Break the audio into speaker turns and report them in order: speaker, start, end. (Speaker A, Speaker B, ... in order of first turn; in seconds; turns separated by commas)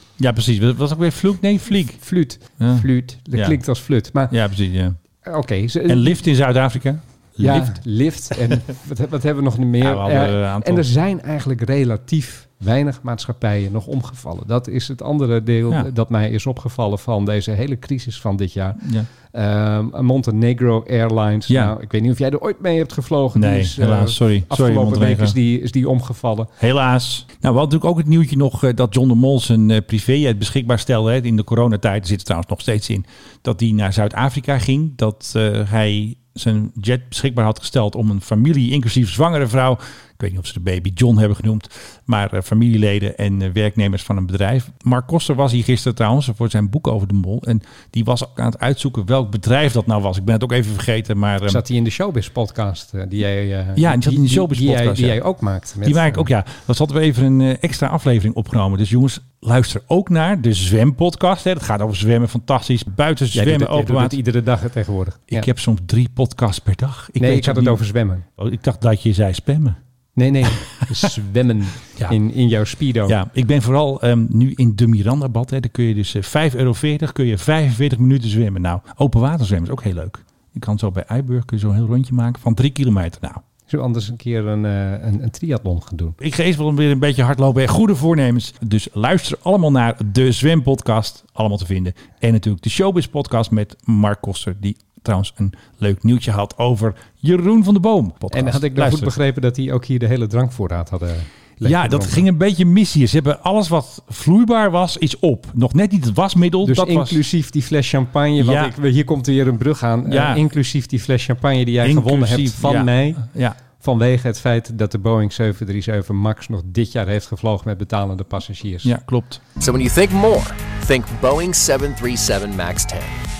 Speaker A: 0.2-2.0, Speaker B: 2.0-4.3, Speaker A: 2.6-3.6, Speaker A: 4.3-5.0, Speaker B: 5.2-6.2, Speaker A: 5.9-7.8, Speaker B: 7.4-26.5, Speaker A: 9.8-10.8, Speaker A: 18.8-19.1, Speaker A: 21.5-21.7, Speaker A: 23.4-25.4, Speaker A: 26.6-51.6, Speaker B: 51.5-56.3, Speaker A: 53.8-55.2, Speaker A: 55.8-64.2, Speaker B: 63.3-65.5, Speaker A: 65.3-67.8, Speaker B: 67.2-68.2, Speaker A: 68.4-69.8, Speaker B: 70.2-73.2, Speaker A: 73.1-83.4, Speaker B: 83.7-86.2, Speaker A: 86.2-99.1, Speaker B: 98.3-102.2, Speaker A: 101.6-107.2, Speaker B: 106.6-113.2, Speaker A: 108.4-108.7, Speaker A: 110.1-110.4, Speaker A: 111.8-113.5, Speaker B: 113.8-118.9, Speaker A: 118.8-119.4, Speaker C: 119.6-123.1